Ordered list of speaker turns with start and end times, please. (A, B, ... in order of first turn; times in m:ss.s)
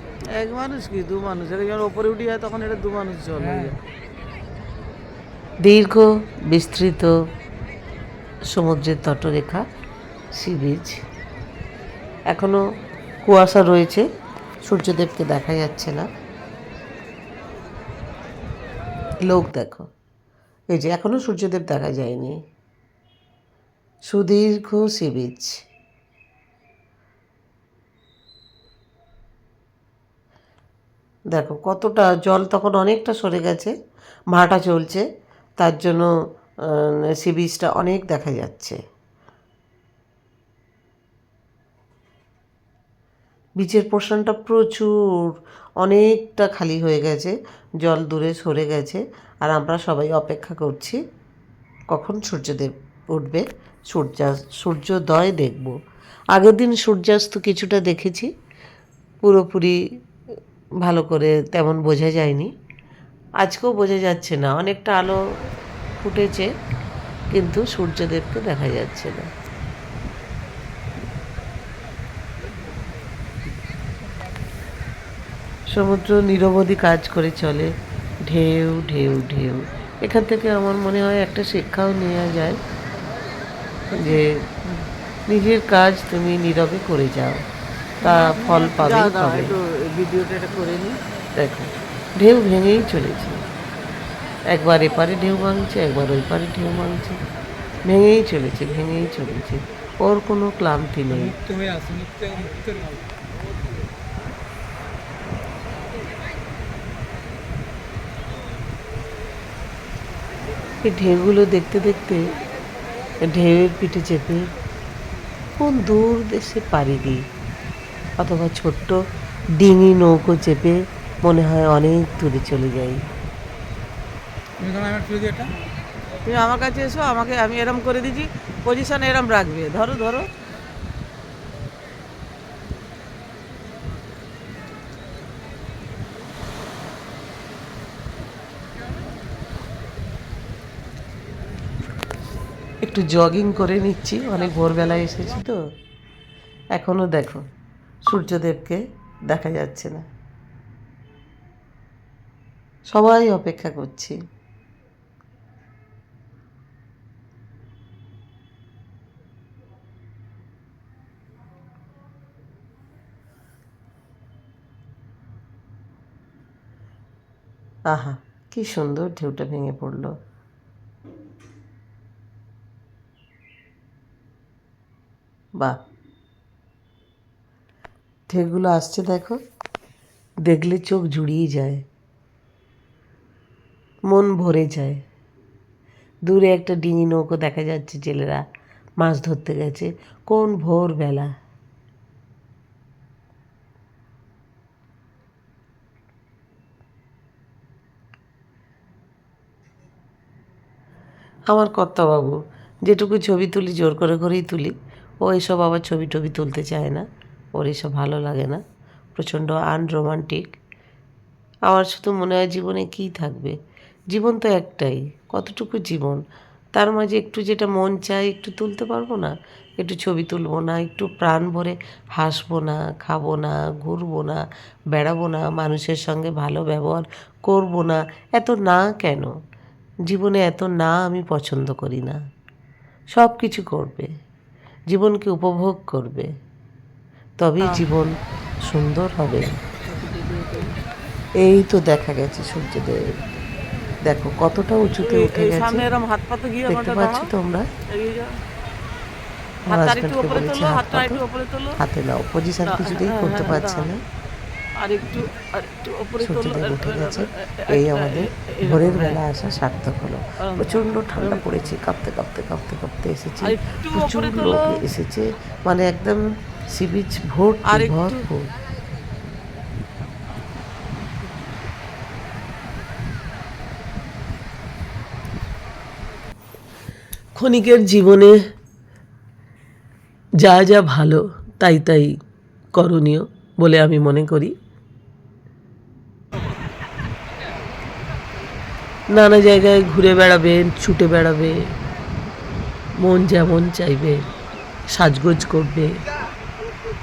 0:00.3-0:03.8 A
0:03.4-0:03.8 B
0:05.6-0:07.1 C
0:08.5-0:09.6 C
0:10.4-0:11.0 C
0:12.3-0:12.6 C
0:13.2-0:14.0 C
0:14.6-0:16.1 C
0:19.3-0:19.9 C
0:20.7-0:22.4 C
0:24.1-0:25.6 C
0:31.3-0:33.7 C
0:34.3-0:35.0 C
0:35.6-0:36.1 C
0:36.7-0:38.8 C
0:43.6-0:51.0 C
0:51.9-0:55.8 C
0:56.3-0:58.3 C
0:59.2-0:59.8 C
1:00.8-1:02.5 C
1:03.4-1:05.2 C
1:06.0-1:06.5 C
1:07.3-1:09.3 C
1:15.7-1:22.6 C
1:23.9-1:24.5 C
1:25.3-1:27.5 C
1:28.0-1:31.0 A
1:28.0-1:29.6 C
1:31.4-1:33.4 C
1:34.5-1:37.2 C
1:37.8-1:41.4 C
1:41.1-1:43.0 B
1:50.8-1:52.3 C
1:53.2-1:54.5 C
1:55.6-1:57.2 C
1:58.2-1:59.0 C
1:59.6-2:03.0 C
2:04.6-2:05.5 B
2:06.2-2:10.3 A
2:22.8-2:25.6 C
2:26.7-2:27.4 C
2:28.0-2:30.0 C
2:32.9-2:34.2 C
2:47.9-2:50.2 C
2:58.3-2:59.4 C
3:00.4-3:01.8 C
3:04.1-3:05.0 C
3:06.2-3:08.4 C
3:09.0-3:11.3 C
3:21.5-3:28.6 C
3:29.1-3:30.6 C
3:31.7-3:33.6 C
3:34.1-3:36.2 C
3:36.7-3:49.3 C
3:50.1-3:52.2 C
3:53.1-3:54.1 C
3:54.9-3:56.3 C
3:57.4-3:59.6 C
3:57.6-3:57.8 A
3:59.8-4:00.8 A
4:01.4-4:03.1 C
4:04.0-4:05.9 C
4:05.0-4:07.3 A
4:06.7-4:07.7 C
4:07.9-4:08.4 A
4:09.7-4:11.2 C
4:09.7-4:11.8 A
4:11.8-4:14.0 C
4:12.6-4:13.9 A
4:14.8-4:19.2 A
4:16.2-4:28.5 C
4:20.4-4:21.6 A
4:23.4-4:24.8 A
4:27.6-4:28.2 A
4:37.4-4:38.4 C
4:40.4-4:42.1 C
4:42.7-4:44.5 C
4:49.1-4:51.6 C
4:53.0-4:54.2 C
4:54.9-4:56.0 C